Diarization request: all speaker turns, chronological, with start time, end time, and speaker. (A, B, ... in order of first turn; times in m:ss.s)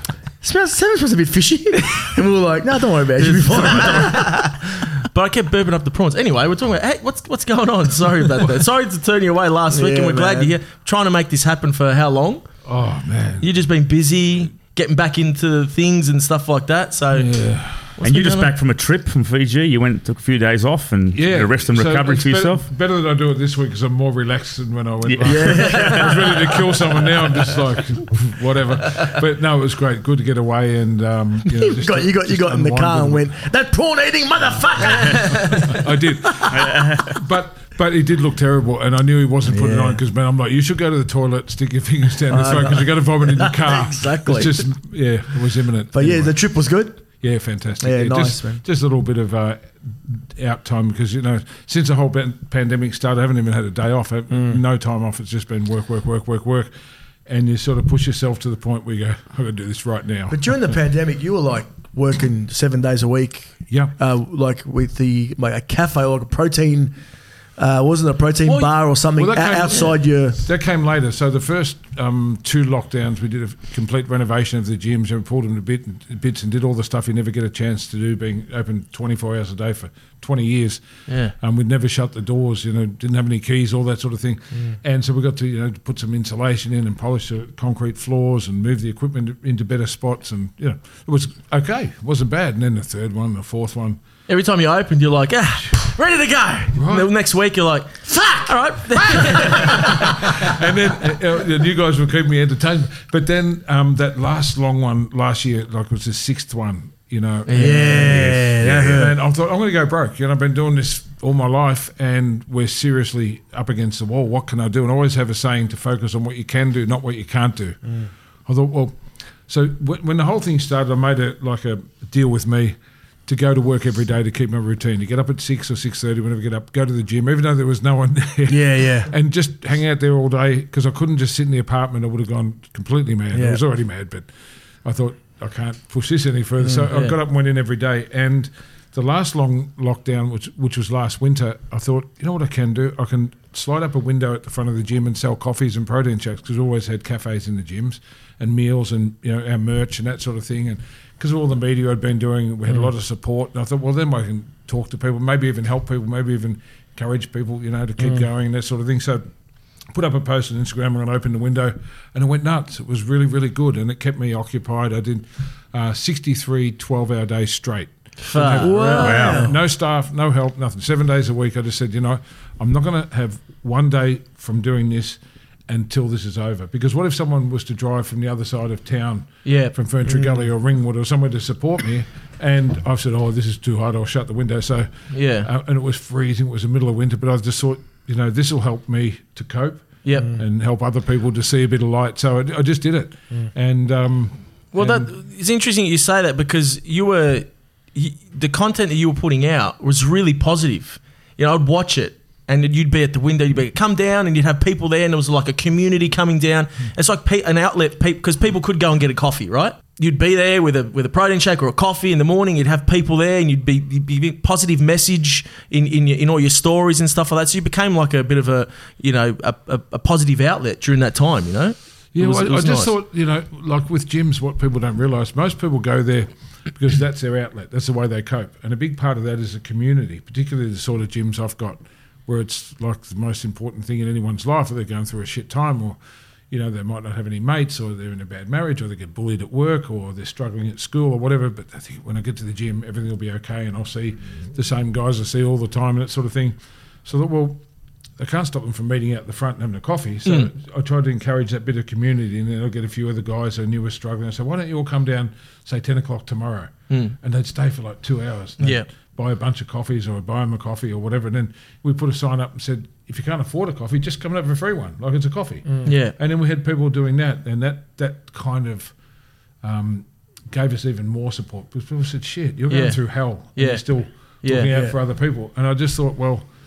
0:00.4-0:04.5 A
0:03.2-0:12.5 B
0:09.7-0:10.6 A
0:12.7-0:13.5 C
0:13.4-0:17.4 B
0:17.2-0:18.0 C
0:18.0-0:18.5 B
0:18.0-0:22.7 D
0:21.1-0:33.4 C
0:25.0-0:26.5 D
0:25.2-0:26.4 A
0:31.5-0:35.9 A
0:35.4-0:46.3 C
0:36.5-0:37.1 D
0:39.4-0:40.0 A
0:42.3-0:44.6 A
0:45.9-0:47.0 A
0:47.2-0:56.7 C
0:47.8-0:48.6 A
0:54.3-0:54.6 A
0:57.3-1:00.4 C
1:00.3-1:07.0 A
1:07.6-1:10.4 A
1:09.2-1:34.0 C
1:21.1-1:21.3 B
1:34.3-1:40.5 B
1:36.8-1:37.1 C
1:39.5-1:57.8 C
1:47.5-1:48.3 B
1:47.5-1:49.2 A
1:58.5-1:59.0 C
1:59.5-2:14.3 C
2:08.5-2:09.1 A
2:13.3-2:13.6 A
2:14.8-2:39.3 C
2:16.6-2:16.9 A
2:16.9-2:17.2 B
2:39.9-3:15.1 C
2:48.2-2:49.2 B
2:48.4-2:49.6 A
2:49.0-2:49.5 D
2:59.4-2:59.8 B
3:00.1-3:00.5 A
3:05.1-3:05.5 B
3:10.0-3:10.3 B
3:14.7-3:42.9 B
3:42.1-3:56.0 C
3:56.5-4:07.6 C
4:08.2-4:28.9 C
4:10.2-4:10.5 B
4:16.9-4:17.2 B
4:18.6-4:18.9 B
4:25.8-4:26.2 B
4:29.6-4:36.5 C
4:32.7-4:33.0 B
4:33.6-4:33.8 B
4:34.4-4:34.7 B
4:34.6-4:35.0 A